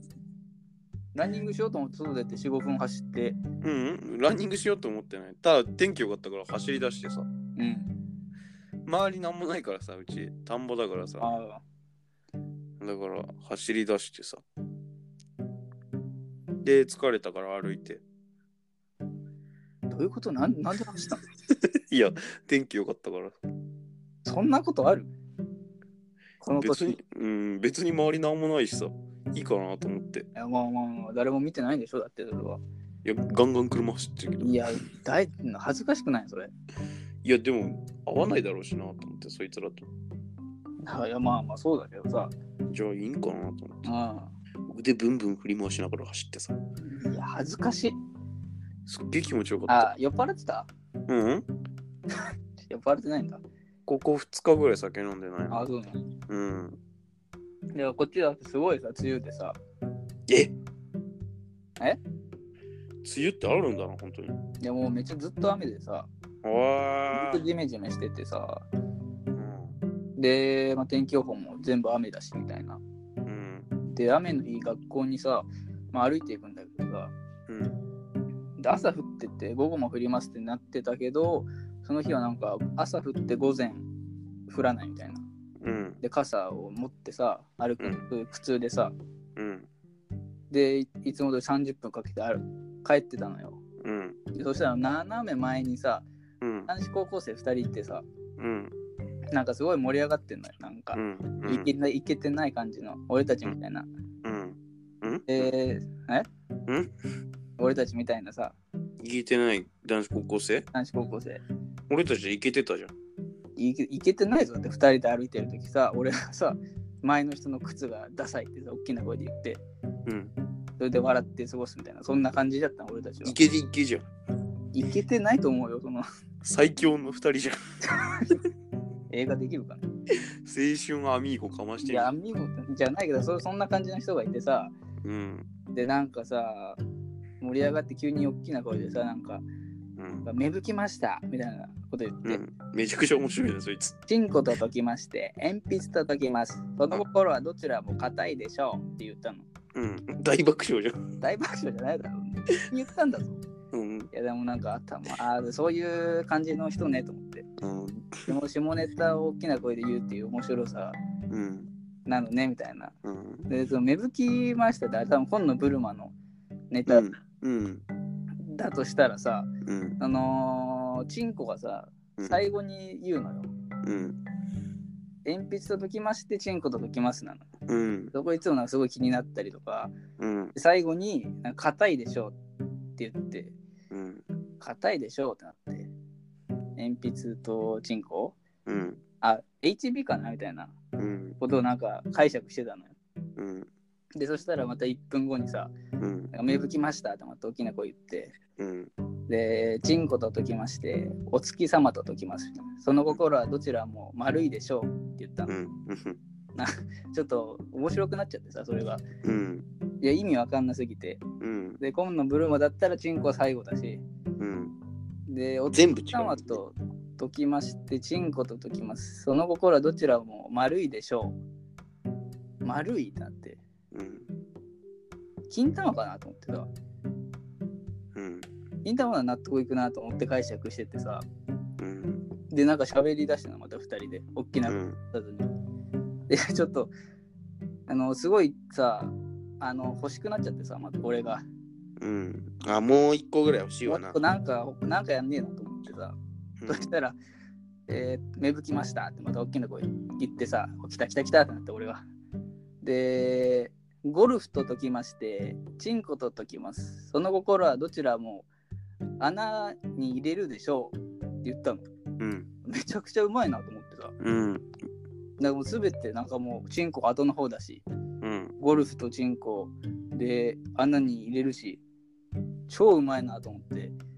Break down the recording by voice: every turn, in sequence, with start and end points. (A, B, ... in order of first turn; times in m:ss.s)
0:01.1-0:03.4 A
0:03.6-0:07.3 B
0:07.6-0:07.9 A
0:08.8-0:11.3 B
0:11.2-0:11.6 A
0:12.8-0:14.4 B
0:16.6-0:18.0 B
0:19.9-0:21.2 A
0:21.9-0:23.4 B
0:24.2-0:25.1 A
0:26.4-0:27.0 A
0:26.6-0:30.3 B
0:30.3-0:32.6 A
0:33.0-0:34.8 B
0:34.4-0:36.5 A
0:37.2-0:39.9 B
0:40.8-0:42.3 A
0:42.7-0:43.8 B
0:43.8-0:44.3 A
0:44.7-0:46.6 B
0:46.8-0:48.0 A
0:48.8-0:49.9 B
0:49.7-0:50.7 A
0:51.1-0:51.4 B
0:52.7-0:53.4 A
0:53.9-0:55.7 B
0:55.5-0:56.0 A
0:56.3-0:56.8 B
0:57.7-0:59.6 A
1:00.3-1:00.5 B
1:03.0-1:04.4 B
1:04.6-1:06.1 A
1:06.4-1:07.4 B
1:07.1-1:08.6 A
1:09.4-1:09.7 B
1:10.2-1:12.8 A
1:13.2-1:13.7 B
1:13.9-1:17.1 A
1:17.5-1:17.8 B
1:18.6-1:23.9 A
1:24.5-1:25.2 A
1:25.6-1:26.0 B
1:26.0-1:28.9 A
1:27.8-1:28.0 B
1:29.4-1:29.7 B
1:30.5-1:33.6 A
1:33.8-1:34.2 B
1:34.3-1:36.1 A
1:36.4-1:36.7 B
1:36.7-1:38.0 A
1:38.4-1:38.7 B
1:39.3-1:43.9 A
1:40.9-1:41.7 B
1:44.2-1:45.5 B
1:45.3-1:46.3 A
1:47.6-1:48.6 A
1:49.0-1:50.6 B
1:50.7-1:51.4 A
1:51.9-1:52.9 B
1:53.6-1:59.6 A
2:00.0-2:00.3 B
2:00.8-2:03.4 A
2:03.2-2:04.0 B
2:04.7-2:06.0 A
2:06.4-2:07.6 B
2:07.9-2:08.4 A
2:09.1-2:09.9 A
2:10.4-2:12.1 B
2:11.8-2:14.7 A
2:15.0-2:15.4 B
2:15.7-2:16.8 A
2:17.4-2:19.4 A
2:20.0-2:20.3 B
2:20.2-2:22.4 A
2:22.2-2:24.0 B
2:24.1-2:29.4 A
2:29.7-2:31.0 B
2:31.2-2:33.4 A
2:33.7-2:34.1 B
2:34.1-2:37.4 A
2:37.6-2:38.3 B
2:38.3-2:41.0 A
2:41.3-2:41.7 B
2:42.0-2:42.9 A
2:43.0-2:43.5 B
2:43.5-2:46.1 A
2:46.7-2:47.0 A
2:46.9-2:47.8 B
2:48.5-2:49.5 A
2:49.6-2:50.0 B
2:50.0-2:53.5 A
2:53.8-2:54.2 B
2:55.2-2:57.4 A
2:57.7-2:58.1 B
2:58.1-2:59.9 A
3:00.2-3:00.5 B
3:00.5-3:02.3 A
3:03.0-3:03.5 A
3:03.9-3:04.2 B
3:04.6-3:05.9 A
3:06.8-3:08.4 A
3:08.6-3:09.0 B
3:09.2-3:10.7 A
3:11.0-3:11.4 B
3:11.4-3:13.0 A
3:13.4-3:13.7 B
3:14.2-3:15.7 A
3:16.0-3:16.3 B
3:16.3-3:18.4 A
3:18.6-3:18.9 B
3:19.3-3:25.5 A
3:25.5-3:26.2 B
3:26.6-3:29.0 A
3:29.2-3:29.6 B
3:30.0-3:31.2 A
3:31.4-3:31.8 B
3:31.8-3:34.0 A
3:34.4-3:34.8 B
3:35.3-3:41.4 A
3:35.7-3:36.6 B
3:42.6-3:43.6 A
3:43.9-3:44.3 B
3:45.5-3:46.7 A
3:48.1-3:48.5 B
3:48.8-3:51.2 A
3:51.8-3:52.2 B
3:52.5-3:55.5 A
3:54.6-3:55.0 B
3:56.3-3:56.9 A
3:57.9-4:01.4 A
4:02.0-4:04.2 B
4:03.8-4:07.2 A
4:06.6-4:06.9 B
4:07.9-4:12.0 A
4:12.8-4:18.5 A
4:19.2-4:21.9 A
4:22.2-4:22.5 B
4:22.6-4:24.1 A
4:24.2-4:24.6 B
4:25.4-4:27.8 A
4:28.2-4:28.5 B
4:28.6-4:31.8 A
4:32.7-4:33.9 A